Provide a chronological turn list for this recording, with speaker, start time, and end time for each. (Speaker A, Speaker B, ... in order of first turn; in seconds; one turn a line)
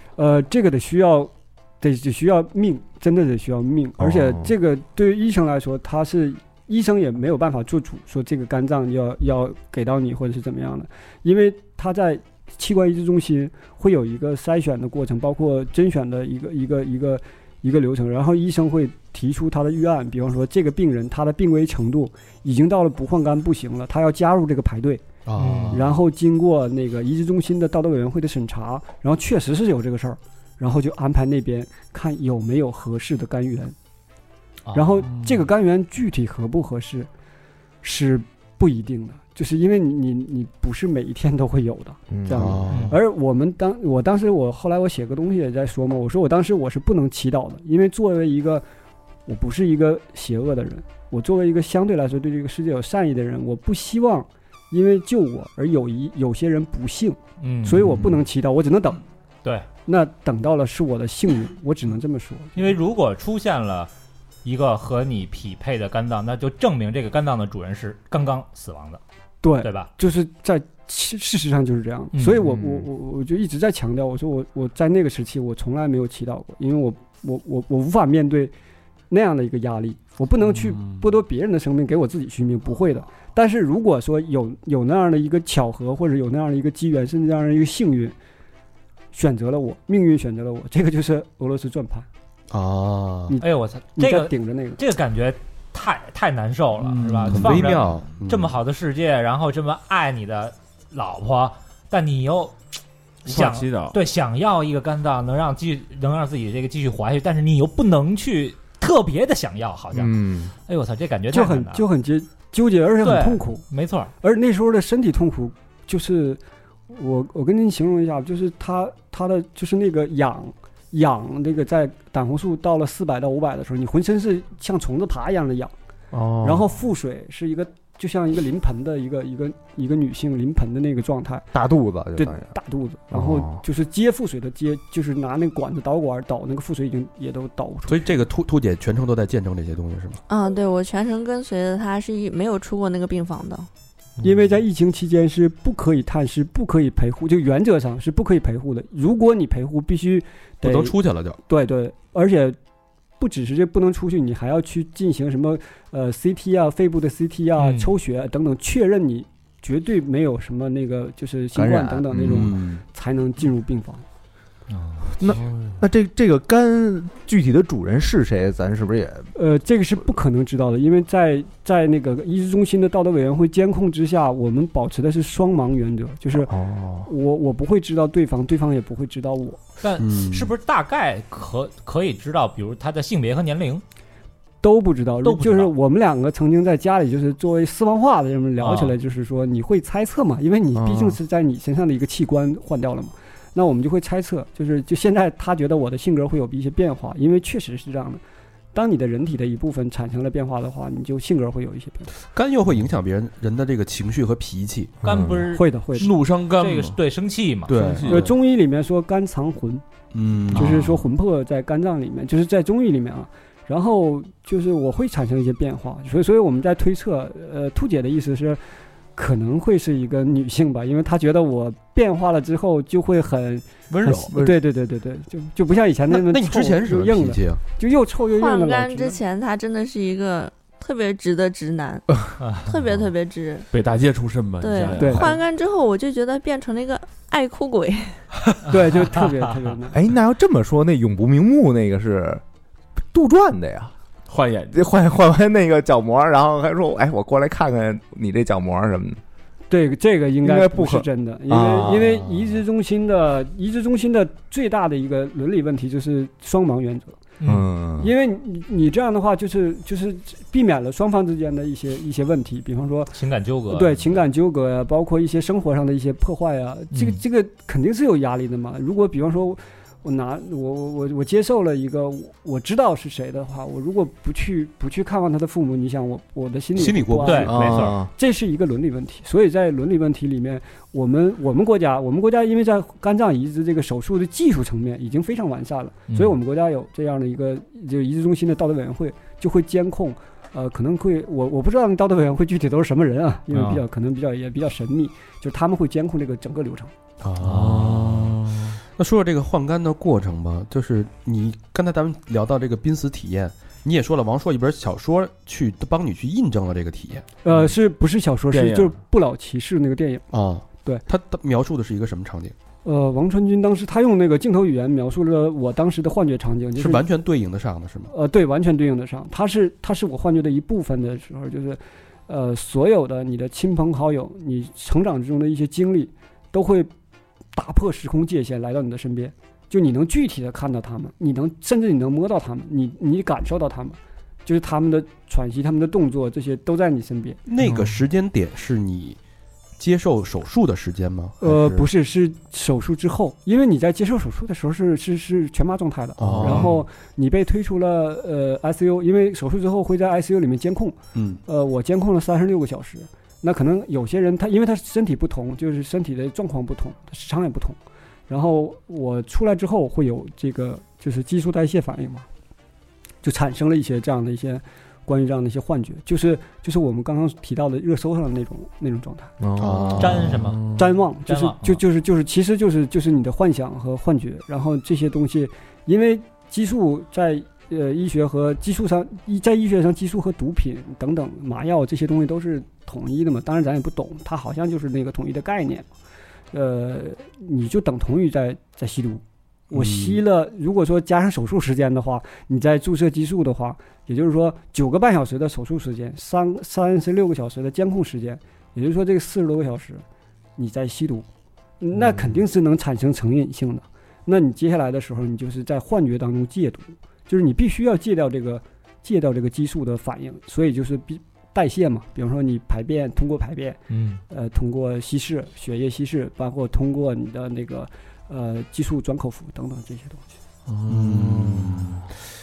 Speaker A: 0.2-25.1
Speaker B: 4.0-4.5
Speaker C: 25.3-25.9
Speaker D: 25.4-25.9
Speaker A: 25.7-33.8
Speaker D: 34.7-35.1
Speaker A: 34.7-37.1
Speaker A: 37.8-48.6
Speaker B: 42.1-42.8
Speaker C: 42.3-43.0
Speaker D: 42.7-43.0
Speaker A: 49.3-59.0
Speaker D: 57.4-58.1
Speaker A: 59.9-62.8
Speaker D: 62.6-63.9
Speaker D: 64.4-69.0
Speaker A: 69.4-78.5
Speaker D: 69.6-69.9
Speaker D: 72.1-72.5
Speaker A: 79.1-88.2
Speaker E: 80.5-81.0
Speaker A: 89.1-92.1
Speaker C: 92.5-93.4
Speaker A: 93.3-94.8
Speaker D: 93.4-102.6
Speaker E: 96.8-97.9
Speaker C: 97.3-98.6
Speaker E: 103.2-104.0
Speaker D: 103.2-111.8
Speaker B: 109.9-110.5
Speaker A: 111.3-113.6
Speaker D: 113.0-114.1
Speaker A: 114.2-125.7
Speaker B: 126.1-126.7
Speaker A: 126.4-131.5
Speaker B: 131.5-132.5
Speaker A: 132.2-138.0
Speaker B: 133.1-133.6
Speaker C: 137.9-140.2
Speaker F: 140.3-143.7
Speaker A: 144.2-152.6
Speaker C: 150.6-151.4
Speaker A: 153.2-164.0
Speaker D: 157.6-157.9
Speaker B: 161.6-162.7
Speaker C: 162.1-162.8
Speaker D: 164.7-165.1
Speaker B: 165.1-169.3
Speaker A: 169.3-176.5
Speaker B: 176.3-177.1
Speaker A: 177.0-179.6
Speaker D: 179.8-183.8
Speaker C: 180.0-180.5
Speaker A: 184.6-198.2
Speaker D: 185.2-185.7
Speaker D: 188.6-188.9
Speaker B: 190.7-191.2
Speaker A: 198.7-202.1
Speaker C: 202.3-205.0
Speaker B: 205.0-205.5
Speaker D: 205.0-207.9
Speaker A: 205.5-206.1
Speaker E: 205.9-207.0
Speaker C: 207.7-208.3
Speaker E: 207.8-208.3
Speaker A: 208.1-209.8
Speaker C: 210.1-210.9
Speaker A: 210.5-218.6
Speaker B: 210.5-211.0
Speaker A: 219.2-229.2
Speaker C: 223.9-224.4
Speaker B: 224.1-224.5
Speaker C: 226.1-227.6
Speaker F: 228.3-233.7
Speaker D: 232.4-232.7
Speaker E: 233.7-235.4
Speaker F: 234.6-238.2
Speaker A: 235.0-235.3
Speaker A: 238.7-240.0
Speaker B: 239.9-242.4
Speaker B: 243.1-243.9
Speaker E: 244.3-244.8
Speaker B: 244.7-249.2
Speaker A: 249.7-257.2
Speaker B: 250.4-252.3
Speaker D: 257.4-257.7
Speaker B: 257.4-258.1
Speaker A: 258.0-263.1
Speaker D: 263.1-264.2
Speaker A: 263.7-296.9
Speaker D: 266.9-267.2
Speaker C: 276.8-277.9
Speaker D: 277.2-278.0
Speaker B: 277.5-278.1
Speaker D: 286.1-286.4
Speaker D: 293.5-293.8
Speaker C: 297.2-298.3
Speaker E: 297.4-298.8
Speaker C: 299.0-307.3
Speaker A: 307.4-310.2
Speaker E: 308.5-309.0
Speaker C: 310.3-312.6
Speaker A: 312.8-317.0
Speaker C: 316.8-318.1
Speaker A: 318.1-326.9
Speaker A: 327.6-337.4
Speaker C: 337.5-339.2
Speaker C: 339.8-341.9
Speaker A: 341.4-357.8
Speaker C: 346.2-346.7
Speaker C: 351.1-351.4
Speaker A: 358.3-362.3
Speaker A: 363.2-369.3
Speaker B: 369.4-370.6
Speaker C: 369.6-370.4
Speaker D: 370.0-371.8
Speaker A: 370.8-385.9
Speaker A: 386.5-400.0
Speaker C: 389.7-390.2
Speaker A: 400.6-401.3
Speaker A: 401.8-420.2
Speaker D: 413.9-414.2
Speaker E: 420.7-422.0
Speaker C: 420.9-422.1